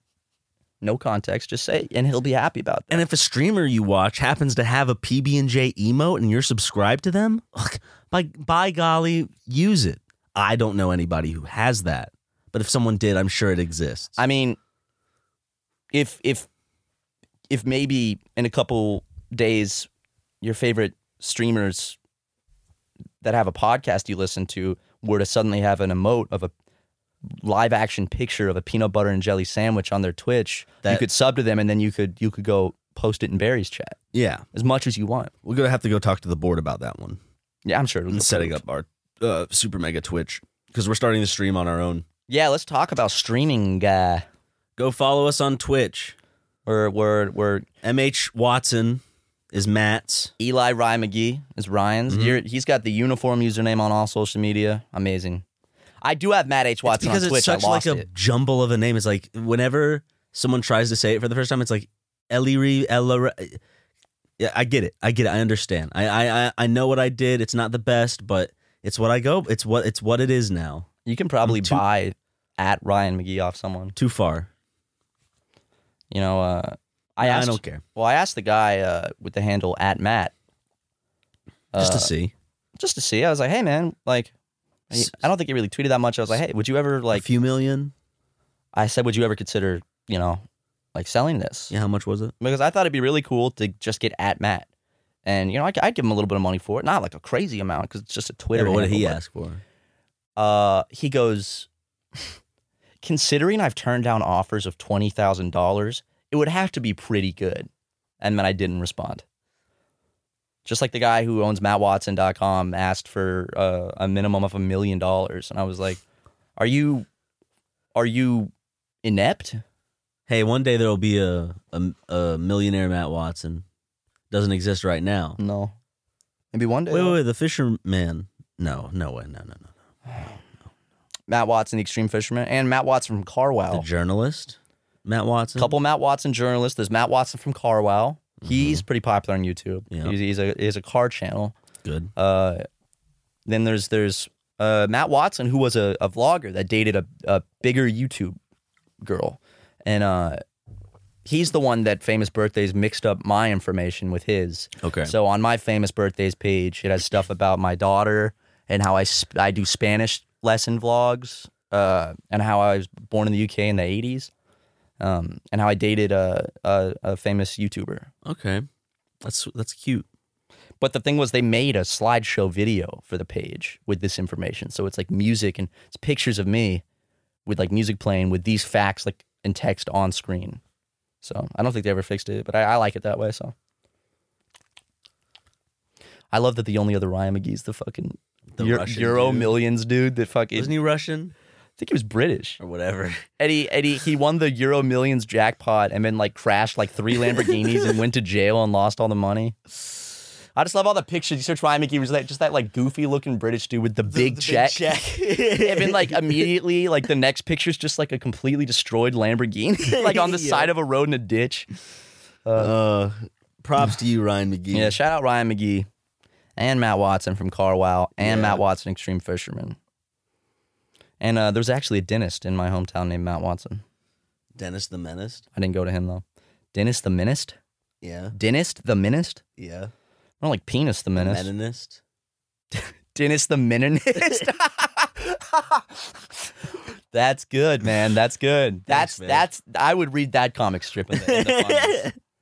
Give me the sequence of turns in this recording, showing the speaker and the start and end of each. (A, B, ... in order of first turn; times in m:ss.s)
0:00.8-0:03.0 A
0:02.9-0:14.2 B
0:14.2-0:14.6 A
0:15.9-0:16.5 A
0:17.5-0:19.9 A
0:20.4-0:22.0 A
0:23.2-0:26.5 A
0:27.3-0:34.0 A
0:34.1-0:34.4 B
0:34.5-0:35.3 A
0:35.4-0:37.2 B
0:37.6-0:38.6 A
0:38.1-0:42.0 B
0:42.3-0:44.2 A
0:44.8-0:46.2 B
0:46.6-0:47.6 A
0:47.8-0:50.3 B
0:50.4-0:55.4 A
0:52.1-0:52.4 B
0:56.0-0:58.1 A
0:56.8-1:03.6 B
1:04.4-1:10.9 B
1:11.0-1:14.0 A
1:11.4-1:11.8 B
1:14.0-1:14.5 B
1:16.1-1:20.3 A
1:17.2-1:17.8 B
1:21.7-1:22.1 A
1:21.8-1:22.3 B
1:22.8-1:24.3 A
1:24.9-1:27.2 A
1:27.1-1:27.9 B
1:28.7-1:30.4 A
1:30.9-1:31.7 A
1:31.7-1:32.3 B
1:32.4-1:34.7 A
1:35.2-1:39.2 A
1:38.5-1:39.6 B
1:40.4-1:41.7 A
1:43.0-1:47.7 A
1:48.2-1:49.2 A
1:50.6-1:56.0 A
1:56.6-1:57.1 A
1:57.9-1:58.5 A
1:59.0-1:59.6 A
2:00.3-2:03.6 B
2:04.3-2:05.4 B
2:05.4-2:05.7 A
2:06.5-2:07.2 A
2:06.9-2:09.7 B
2:11.3-2:13.8 A
2:13.7-2:15.7 B
2:15.6-2:21.5 A
2:18.4-2:18.8 B
2:19.9-2:20.2 B
2:21.8-2:22.1 B
2:22.2-2:22.6 A
2:23.4-2:28.4 A
2:29.0-2:30.4 A
2:31.2-2:44.3 A
2:34.8-2:35.1 B
2:45.0-2:48.1 A
2:48.2-2:48.6 B
2:49.2-2:50.0 B
2:50.8-2:56.8 A
2:57.4-3:00.6 A
3:01.2-3:03.5 A
3:06.3-3:10.7 A
3:08.5-3:09.6 B
3:10.5-3:11.3 B
3:11.8-3:12.6 A
3:12.6-3:13.3 B
3:13.4-3:19.6 A
3:17.3-3:17.9 B
3:20.6-3:24.8 A
3:24.1-3:26.5 B
3:25.6-3:31.7 A
3:29.9-3:30.7 B
3:32.4-3:32.7 A
3:32.6-3:35.0 B
3:34.7-3:35.9 A
3:36.6-3:39.8 A
3:38.2-3:38.6 B
3:41.2-3:43.8 A
3:44.5-3:45.4 B
3:45.5-3:46.2 A
3:46.7-3:47.6 A
3:48.0-3:48.4 B
3:48.3-3:49.4 A
3:49.6-3:49.9 B
3:50.4-3:51.5 A
3:51.2-3:52.0 B
3:52.7-3:56.1 A
3:54.1-3:54.5 B
3:57.1-4:02.1 A
3:58.9-3:59.5 B
4:01.1-4:02.1 B